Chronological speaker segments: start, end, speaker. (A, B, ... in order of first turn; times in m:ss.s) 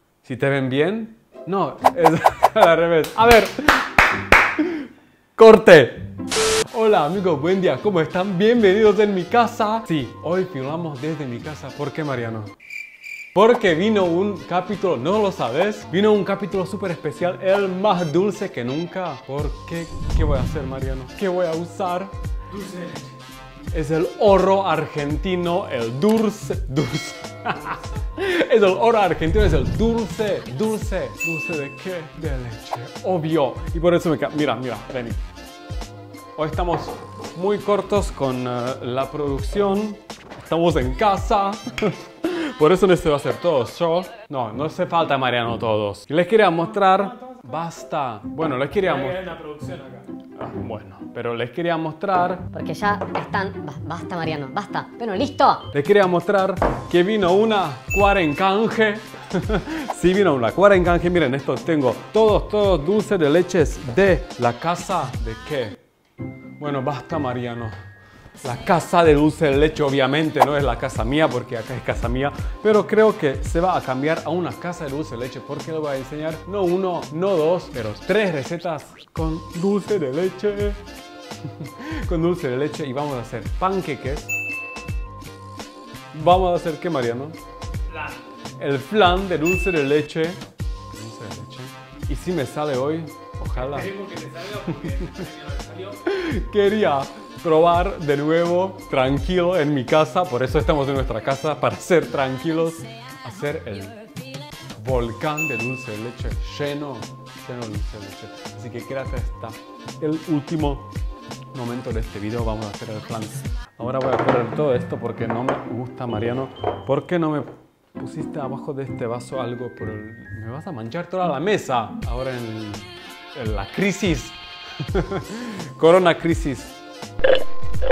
0:00.2-0:03.9 A
0:04.6-0:04.8 A
0:05.4-0:06.1 A
0:06.7-0:12.5 A
0:13.4-0:22.1 A
0:22.5-0:23.2 B
0:23.7-0:35.2 A
0:36.4-0:49.3 A
0:46.6-0:47.6 B
0:48.8-0:50.1 B
0:50.4-0:52.5 A
0:52.5-0:55.7 C
0:55.7-1:05.8 A
1:06.6-1:07.8 A
1:08.4-1:20.8 A
1:21.4-1:24.4 A
1:26.1-1:27.4 A
1:27.9-1:28.3 B
1:28.6-1:34.0 A
1:33.5-1:36.0 B
1:34.6-1:35.3 A
1:36.0-1:44.0 A
1:44.8-1:50.9 A
1:51.5-2:06.8 A